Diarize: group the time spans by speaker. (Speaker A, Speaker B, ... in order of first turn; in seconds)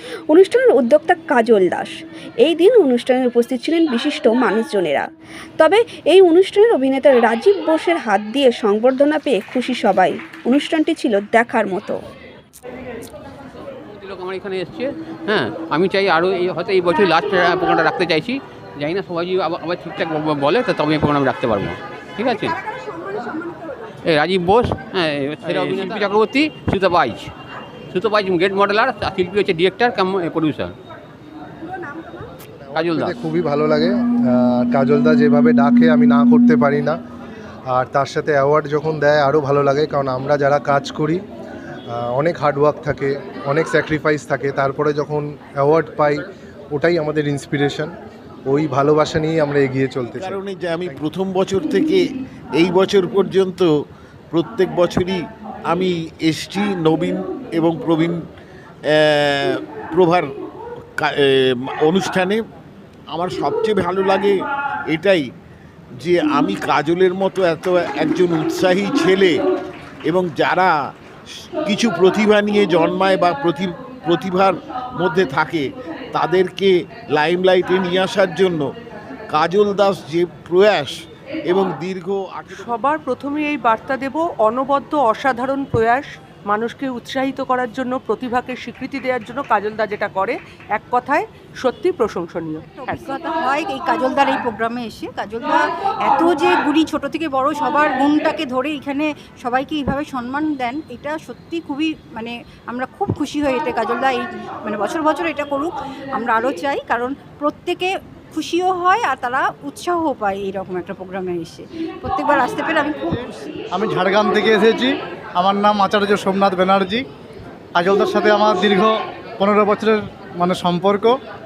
Speaker A: 0.3-1.9, 2.4-5.0, 5.6-12.0
Speaker B: 13.8-22.6, 24.1-27.3, 27.9-30.7, 32.7-33.2
Speaker C: 32.4-37.0, 37.7-41.2, 41.9-47.9, 48.5-51.0
Speaker D: 50.1-52.0, 52.6-53.7, 54.3-58.2, 58.9-60.2, 61.0-62.4, 63.1-64.3, 64.9-65.2, 66.0-69.4, 70.0-70.7, 71.6-78.7, 79.3-80.9, 81.5-82.8
Speaker E: 82.5-93.3
Speaker F: 92.6-113.5
Speaker G: 113.0-117.0, 117.8-121.1